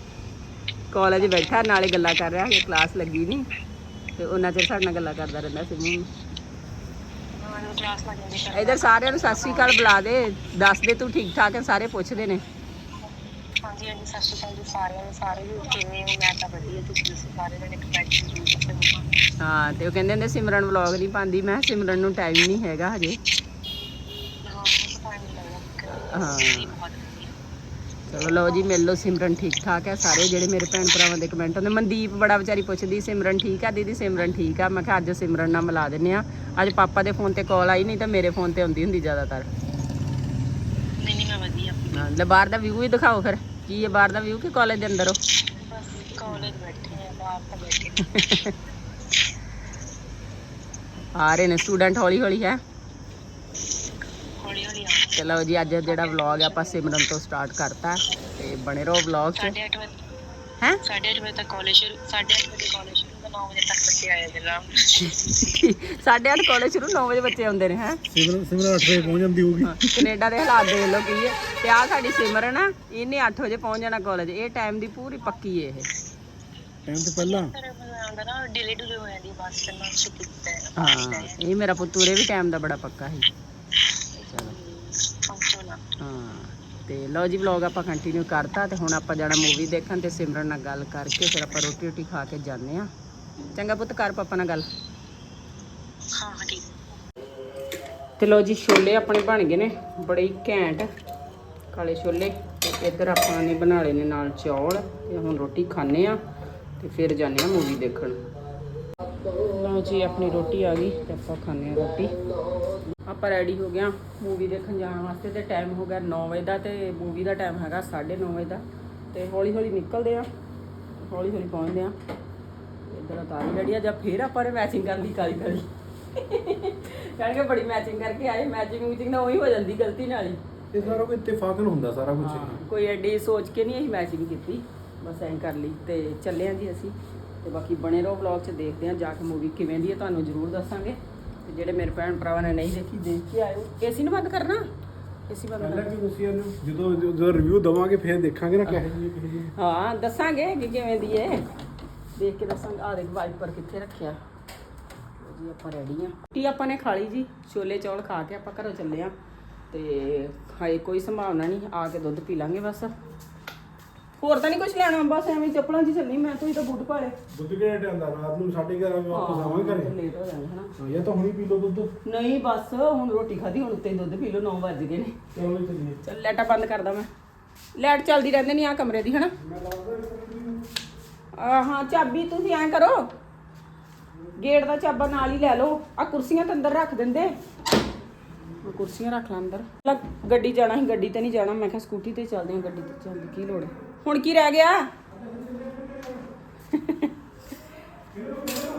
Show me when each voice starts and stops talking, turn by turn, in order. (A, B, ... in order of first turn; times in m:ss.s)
0:00.9-0:03.5 A
0:04.2-0:06.1 A
0:07.4-0:09.8 B
0:08.5-0:12.4 A
0:13.6-0:19.1 B
0:19.4-0:23.2 A
0:24.4-0:27.4 B
0:25.9-0:26.7 A
0:28.1-0:39.5 A
0:41.0-0:42.0 B
0:41.9-0:45.2 A
0:45.6-0:48.4 B
0:48.0-0:48.6 A
0:51.2-0:52.6 A
0:54.4-0:56.9 B
0:55.2-0:59.6 A
0:59.4-1:00.0 B
1:00.8-1:05.2 B
1:05.1-1:08.0 A
1:08.1-1:10.0 C
1:09.6-1:15.9 A
1:16.9-1:17.6 C
1:17.2-1:21.4 B
1:20.8-1:23.3 A
1:24.2-1:24.6 A
1:24.4-1:25.8 B
1:26.0-1:32.9 A
1:33.5-1:34.7 A
1:36.2-1:36.7 B
1:38.2-1:40.9 A
1:41.7-1:46.2 A
1:46.8-1:48.2 A
1:49.4-1:52.2 A
1:53.0-2:00.3 A
2:01.0-2:02.0 A
2:02.9-2:10.4 A
2:10.7-2:12.6 C
2:12.2-2:24.7 A
2:25.3-2:25.9 A
2:25.6-2:29.5 C
2:29.6-2:31.4 A
2:32.2-2:34.2 A
2:35.2-2:39.1 A
2:39.7-2:42.9 A
2:44.2-2:47.2 A
2:47.3-2:49.9 C
2:49.1-2:50.7 A
2:50.8-2:51.9 C
2:52.0-2:55.1 A
2:55.3-2:56.0 C
2:56.0-2:57.1 A
2:57.8-2:59.4 A
2:59.4-3:00.6 C
3:01.3-3:03.1 A
3:04.4-3:07.4 A
3:08.6-3:14.9 A
3:16.7-3:17.2 A